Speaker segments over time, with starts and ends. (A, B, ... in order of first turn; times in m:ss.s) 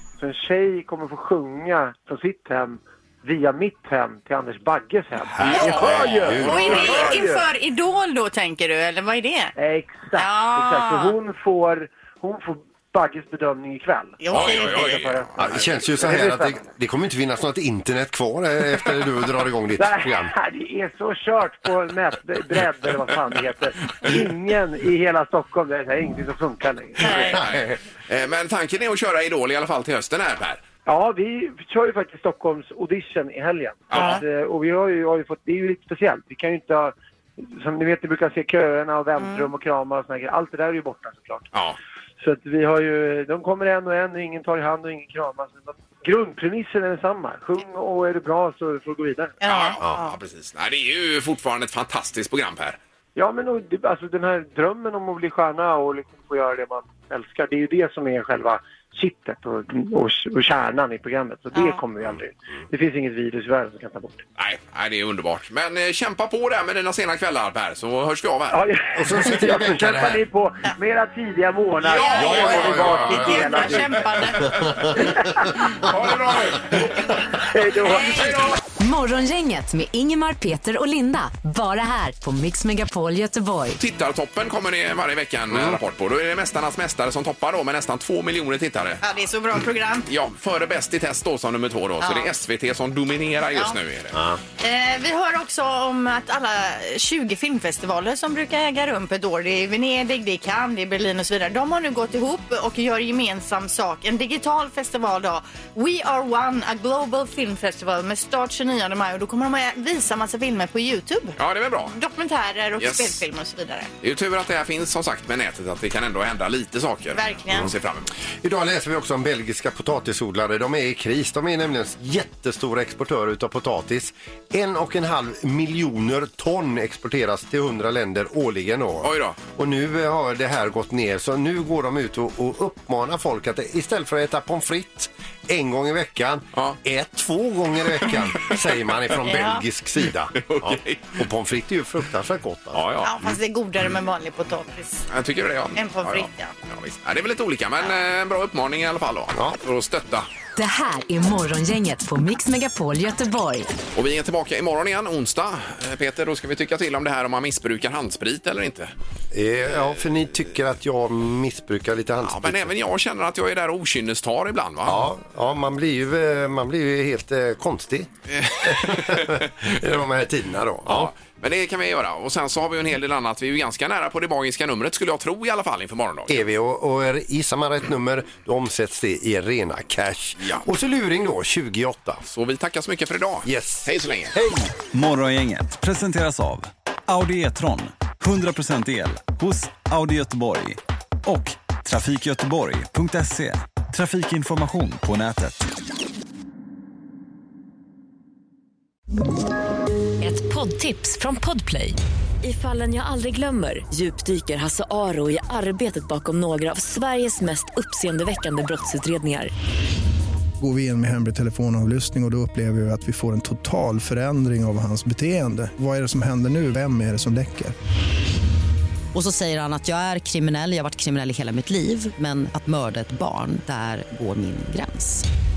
0:00.2-0:07.4 A
0:05.4-0:07.1 B
0:05.4-0:06.9 C
0:06.4-0:09.6 D
0:09.6-0:16.6 A
0:10.1-0:11.2 D
0:14.2-0:15.1 D
0:14.3-0:15.9 C
0:15.4-0:20.3 B
0:19.8-0:27.1 A
0:27.0-0:27.4 D
0:27.0-0:30.6 C
0:27.2-0:27.8 B
0:30.9-0:41.5 A
0:33.9-0:34.2 C
0:33.9-0:34.2 D
0:39.2-0:39.5 D
0:42.2-0:49.4 A
0:49.4-0:50.1 D
0:49.5-0:52.8 C
0:53.2-1:04.2 A
1:01.5-1:01.8 D
1:04.4-1:08.6 C
1:08.5-1:13.9 A
1:09.0-1:10.2 B
1:11.8-1:13.8 C
1:12.0-1:14.7 D
1:12.1-1:13.8 B
1:14.5-1:15.2 B
1:15.7-1:17.1 C
1:17.4-1:18.3 A
1:17.8-1:18.4 D
1:17.9-1:18.6 C
1:18.8-1:23.8 E
1:23.8-1:29.0 C
1:25.5-1:25.8 B
1:29.0-1:30.1 D
1:30.1-1:34.2 C
1:32.0-1:32.3 D
1:34.1-1:34.4 B
1:34.6-1:51.4 D
1:51.4-1:52.0 C
1:51.9-1:53.9 D
1:52.8-1:53.2 C
1:54.0-1:58.1 C
1:57.1-1:57.7 D
1:58.4-2:22.8 B
2:09.0-2:09.4 C
2:18.1-2:18.6 C
2:19.2-2:19.6 D
2:20.4-2:21.2 C
2:22.7-2:23.4 C
2:23.0-2:25.1 D
2:25.1-2:30.3 C
2:25.8-2:26.5 D
2:30.6-2:33.7 E
2:33.9-2:38.9 C
2:39.3-2:42.7 B
2:42.2-2:45.1 C
2:44.9-2:48.1 B
2:48.3-2:49.8 C
2:48.6-2:51.1 B
2:50.9-2:56.4 C
2:56.3-3:02.2 B
3:00.4-3:00.7 C
3:02.3-3:04.3 C
3:03.4-3:04.7 B
3:04.9-3:15.6 F
3:20.2-3:29.5 G
3:30.6-3:37.7 H
3:39.2-3:45.2 I